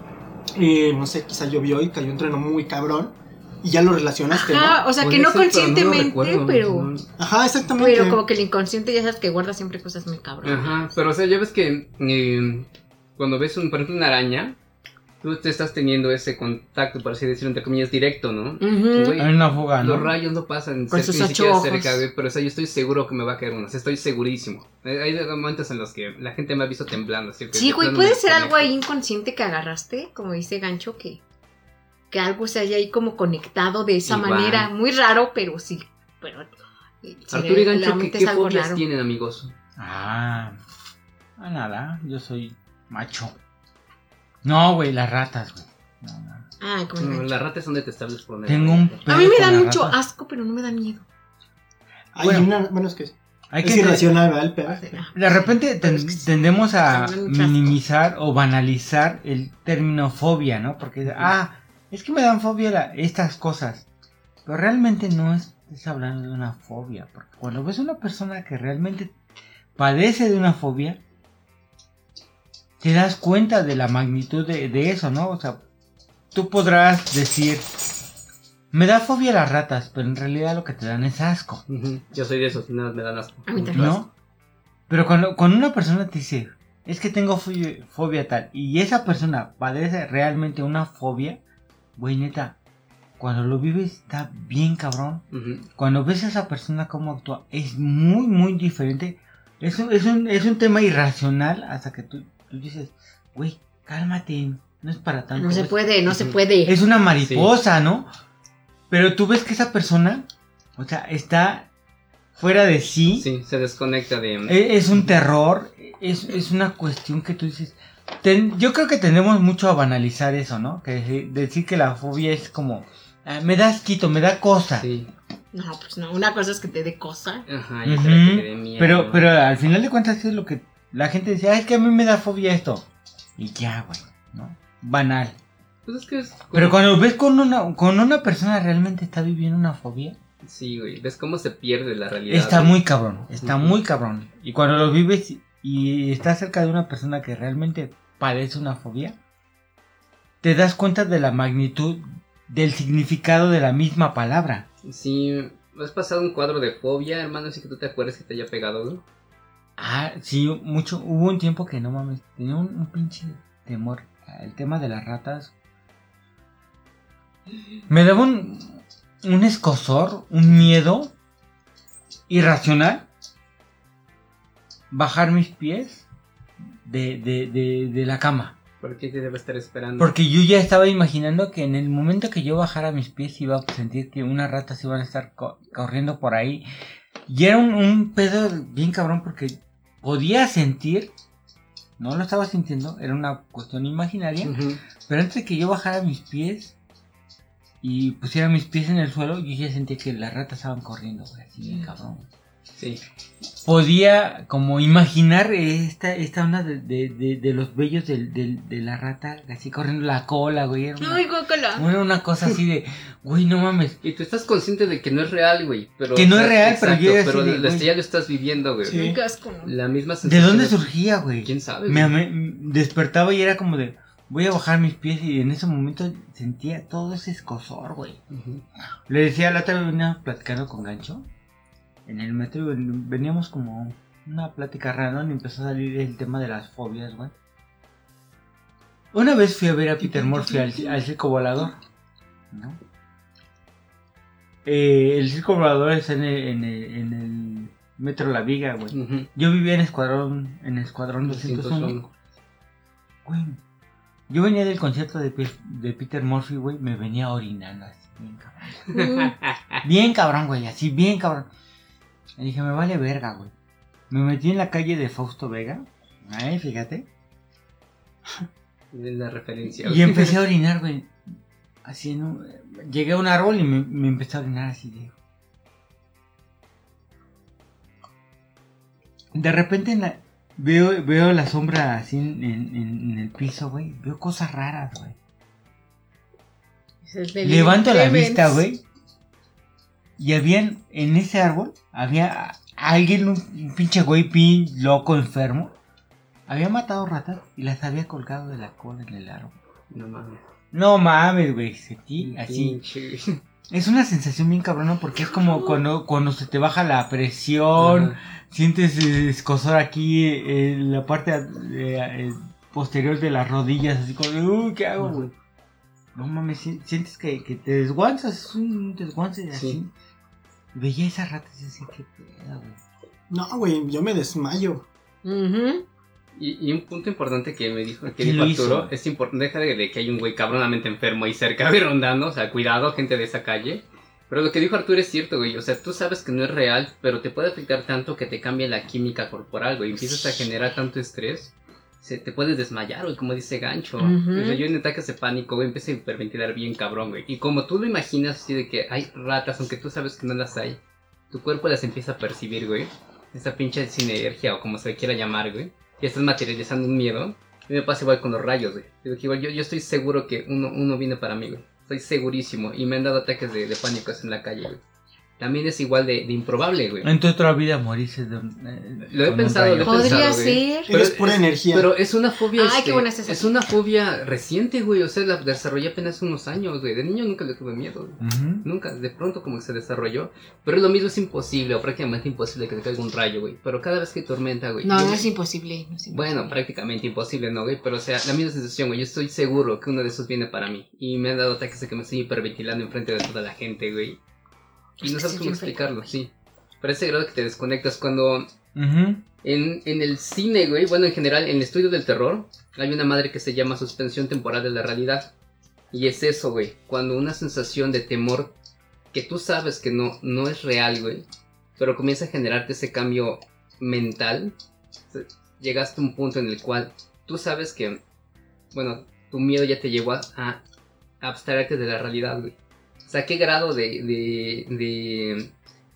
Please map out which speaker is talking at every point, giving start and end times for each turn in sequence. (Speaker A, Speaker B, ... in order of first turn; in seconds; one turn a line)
Speaker A: 0.6-4.8
Speaker B: 4.3-6.9
Speaker C: 5.0-7.1
Speaker A: 7.2-8.2
Speaker B: 7.7-10.7
Speaker C: 10.4-14.6
Speaker C: 15.2-28.7
Speaker B: 18.6-19.2
Speaker D: 19.1-20.1
Speaker B: 20.9-22.0
Speaker B: 27.5-31.2
Speaker B: 32.1-38.8
Speaker C: 34.0-34.7
Speaker C: 37.3-39.5
Speaker D: 39.8-40.6
Speaker D: 41.4-43.4
Speaker D: 44.4-46.5
Speaker B: 46.6-47.3
Speaker C: 47.0-49.1
Speaker D: 48.5-50.0
Speaker B: 49.1-51.0
Speaker A: 52.1-55.0
Speaker D: 52.2-52.5
Speaker D: 53.5-54.0
Speaker B: 54.7-57.7
Speaker D: 55.1-63.9
Speaker D: 64.5-69.1
Speaker D: 69.8-71.0
Speaker D: 72.8-75.6
Speaker D: 76.3-77.6
Speaker D: 78.7-81.6
Speaker C: 81.7-84.0
Speaker B: 83.5-84.0
Speaker D: 83.7-84.1
Speaker D: 84.9-91.4
Speaker D: 92.0-92.6
Speaker D: 93.2-95.2
Speaker C: 95.3-95.7
Speaker D: 95.8-105.8
Speaker B: 105.4-106.7
Speaker C: 106.1-106.3
Speaker D: 106.6-108.1
Speaker C: 107.2-107.5
Speaker D: 108.9-111.7
Speaker D: 112.3-113.2
Speaker C: 113.1-115.1
Speaker D: 114.5-124.9
Speaker C: 124.8-125.1
Speaker B: 125.5-127.4
Speaker C: 127.5-129.3
Speaker D: 127.8-135.4
Speaker C: 135.8-136.9
Speaker D: 136.5-140.2
Speaker C: 140.4-142.8
Speaker D: 142.3-149.2
Speaker C: 143.3-143.7
Speaker D: 150.4-154.7
Speaker C: 154.8-159.0
Speaker D: 159.8-165.5
Speaker D: 167.9-171.1
Speaker D: 172.3-173.1
Speaker D: 174.9-176.0
Speaker D: 176.8-178.5
Speaker C: 178.8-180.1
Speaker D: 180.0-186.6
Speaker D: 187.3-191.1
Speaker D: 192.0-196.7
Speaker C: 194.4-194.8
Speaker D: 197.8-202.3
Speaker C: 202.8-203.0
Speaker D: 203.6-214.0
Speaker B: 211.0-211.9
Speaker C: 214.0-219.1
Speaker D: 216.1-217.9
Speaker A: 218.8-219.2
Speaker B: 218.8-219.7
Speaker C: 219.6-220.9
Speaker D: 220.2-228.2
Speaker C: 221.4-222.1
Speaker C: 228.3-228.6
Speaker D: 229.1-231.2
Speaker D: 232.1-237.3
Speaker D: 239.1-241.8
Speaker D: 242.5-242.8
Speaker D: 244.6-252.0
Speaker C: 248.9-249.3
Speaker C: 251.2-252.1
Speaker D: 253.2-253.6
Speaker D: 254.3-259.0
Speaker C: 258.9-259.8
Speaker B: 259.0-259.3
Speaker D: 259.8-261.5
Speaker D: 262.4-263.5
Speaker D: 264.1-267.1
Speaker C: 268.9-270.4
Speaker D: 269.8-271.1
Speaker D: 271.8-275.1
Speaker D: 279.3-285.2
Speaker B: 287.0-288.6
Speaker D: 287.4-288.8
Speaker D: 290.2-295.7
Speaker D: 296.5-299.6
Speaker C: 299.9-300.4
Speaker D: 300.7-302.8
Speaker C: 302.2-303.4
Speaker D: 303.7-315.3
Speaker C: 307.8-308.1
Speaker C: 315.0-315.3
Speaker D: 316.1-319.9
Speaker D: 320.7-322.8
Speaker A: 323.3-324.9
Speaker B: 325.2-325.8
Speaker C: 326.4-350.8
Speaker D: 328.1-328.9
Speaker B: 344.0-344.6
Speaker C: 351.3-364.8
Speaker C: 365.4-367.1
Speaker D: 367.0-370.4
Speaker C: 369.1-385.3
Speaker B: 369.8-370.9
Speaker A: 370.9-371.9
Speaker B: 372.6-373.4
Speaker D: 378.2-378.6
Speaker B: 384.8-386.5
Speaker C: 386.1-394.2
Speaker B: 395.0-396.1
Speaker C: 395.0-398.5
Speaker D: 398.7-399.2
Speaker C: 399.4-405.3
Speaker C: 405.9-408.5
Speaker C: 409.1-411.2
Speaker C: 411.8-414.5
Speaker C: 415.1-418.0
Speaker C: 418.7-420.6
Speaker C: 421.2-422.6
Speaker C: 423.1-425.5